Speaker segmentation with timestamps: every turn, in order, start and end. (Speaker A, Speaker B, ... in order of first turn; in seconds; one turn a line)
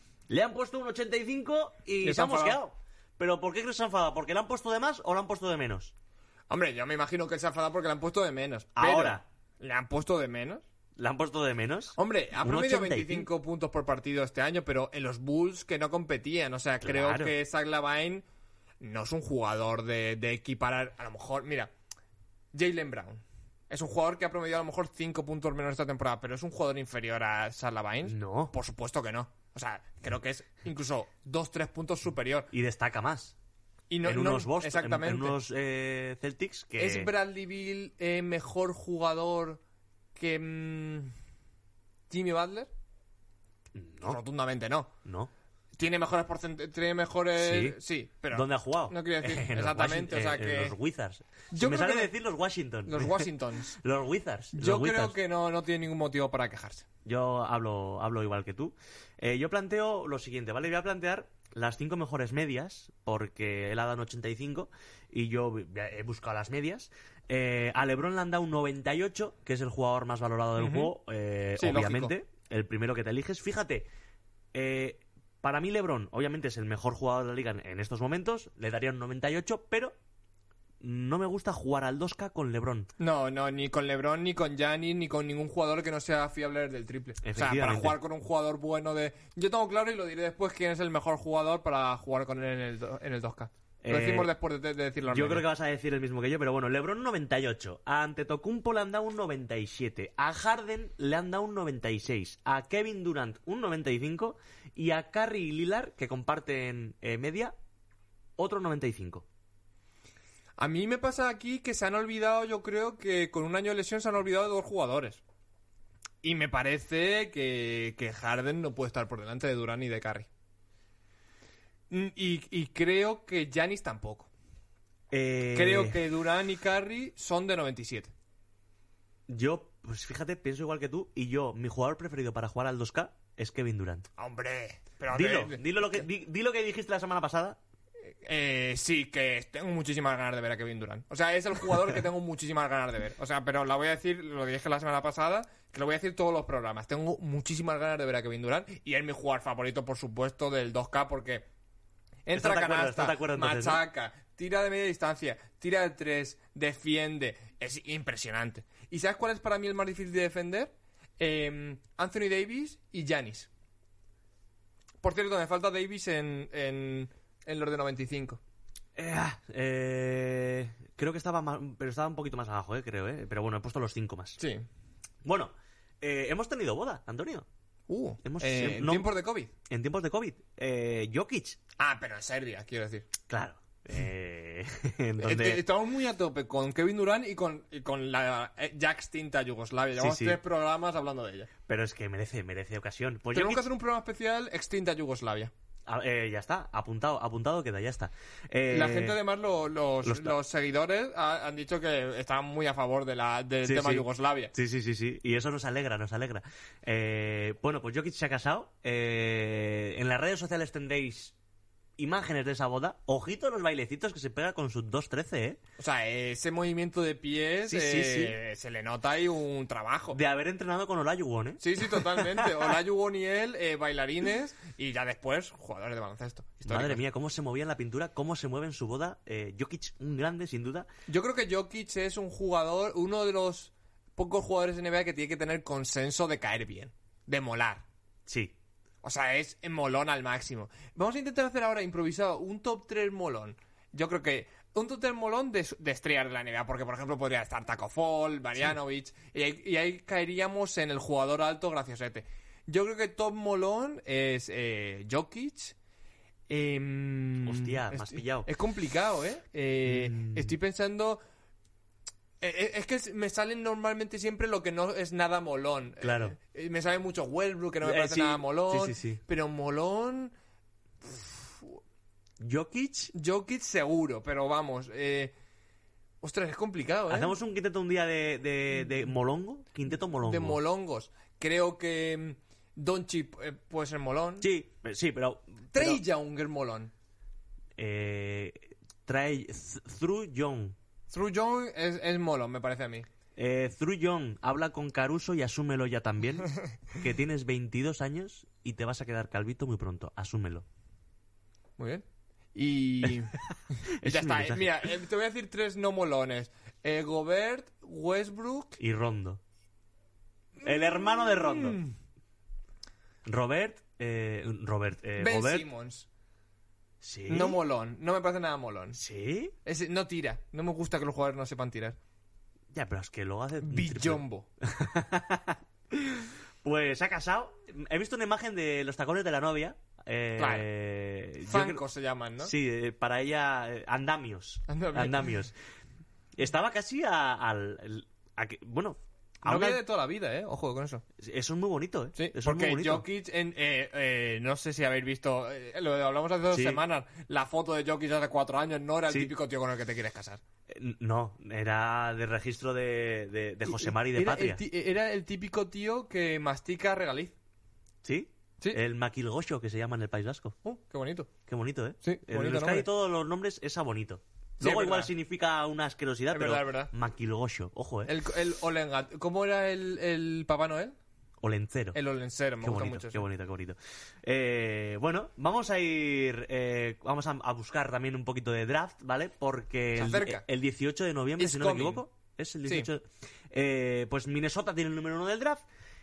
Speaker A: 0.3-5.9
Speaker B: 2.0-2.6
Speaker B: 6.5-10.6
Speaker A: 8.8-9.2
Speaker A: 11.0-13.3
Speaker B: 12.0-18.2
Speaker A: 16.8-17.3
Speaker B: 18.8-21.7
Speaker B: 22.5-32.5
Speaker A: 28.1-28.5
Speaker A: 32.5-33.3
Speaker B: 33.9-35.4
Speaker A: 34.0-37.1
Speaker B: 36.8-39.6
Speaker B: 40.1-41.1
Speaker B: 42.1-42.7
Speaker A: 43.7-44.2
Speaker B: 44.0-44.9
Speaker A: 45.0-45.3
Speaker B: 45.8-50.8
Speaker A: 47.4-47.8
Speaker A: 48.3-55.2
Speaker B: 51.5-52.1
Speaker B: 52.9-53.8
Speaker B: 54.5-56.8
Speaker A: 57.0-73.9
Speaker B: 70.6-70.9
Speaker B: 71.6-72.1
Speaker A: 74.5-79.9
Speaker A: 80.8-82.9
Speaker B: 83.0-95.5
Speaker A: 87.2-88.0
Speaker A: 93.8-94.3
Speaker A: 95.1-107.5
Speaker A: 108.4-109.2
Speaker B: 110.6-115.2
Speaker B: 116.2-120.3
Speaker B: 121.9-124.3
Speaker A: 125.1-126.0
Speaker B: 125.5-128.1
Speaker A: 129.3-134.1
Speaker B: 134.2-136.0
Speaker A: 135.1-137.6
Speaker B: 138.2-151.4
Speaker B: 152.2-163.5
Speaker A: 152.3-153.8
Speaker B: 165.0-168.4
Speaker A: 168.9-174.4
Speaker B: 174.4-174.6
Speaker A: 175.2-177.4
Speaker B: 177.9-179.5
Speaker A: 178.2-179.1
Speaker A: 179.7-181.6
Speaker B: 181.8-183.1
Speaker A: 183.3-185.6
Speaker B: 185.2-191.5
Speaker A: 190.0-190.4
Speaker A: 191.7-193.6
Speaker B: 193.3-195.5
Speaker A: 195.8-199.2
Speaker B: 198.7-204.5
Speaker A: 200.0-200.4
Speaker A: 203.6-211.3
Speaker A: 212.0-215.6
Speaker B: 215.8-220.2
Speaker A: 217.7-218.4
Speaker A: 220.1-221.6
Speaker B: 221.6-227.0
Speaker A: 226.6-230.9
Speaker B: 231.1-237.8
Speaker A: 238.3-238.5
Speaker B: 239.0-255.7
Speaker B: 256.5-261.2
Speaker A: 257.4-258.5
Speaker A: 259.9-260.5
Speaker B: 262.4-270.3
Speaker A: 266.0-266.4
Speaker A: 267.8-269.2
Speaker B: 271.0-271.8
Speaker A: 272.4-273.1
Speaker B: 273.1-275.3
Speaker B: 276.2-277.3
Speaker A: 277.1-280.6
Speaker B: 280.2-284.4
Speaker A: 284.4-286.0
Speaker B: 285.7-286.9
Speaker A: 287.8-290.8
Speaker B: 291.1-293.1
Speaker A: 293.4-300.6
Speaker B: 301.8-302.0
Speaker B: 302.5-308.8
Speaker A: 304.0-304.7
Speaker A: 308.8-309.4
Speaker B: 310.6-311.9
Speaker A: 310.6-311.8
Speaker A: 313.2-315.7
Speaker B: 315.2-316.1
Speaker A: 317.0-317.6
Speaker B: 317.3-319.0
Speaker A: 318.9-319.5
Speaker B: 319.6-321.9
Speaker A: 322.7-331.8
Speaker B: 323.6-324.5
Speaker B: 330.4-330.7
Speaker B: 331.5-332.5
Speaker A: 332.4-335.5
Speaker B: 334.7-335.4
Speaker A: 336.4-339.8
Speaker B: 339.4-341.0
Speaker A: 341.2-343.1
Speaker B: 342.1-350.4
Speaker A: 346.5-346.8
Speaker A: 350.7-354.6
Speaker B: 353.6-357.3
Speaker A: 358.0-360.6
Speaker B: 360.6-361.3
Speaker A: 361.5-368.1
Speaker B: 362.0-362.9
Speaker B: 364.6-365.1
Speaker B: 366.3-366.9
Speaker B: 368.1-370.9
Speaker A: 371.4-372.0
Speaker B: 371.9-373.2
Speaker A: 372.6-385.6
Speaker B: 379.9-380.4
Speaker B: 381.4-382.0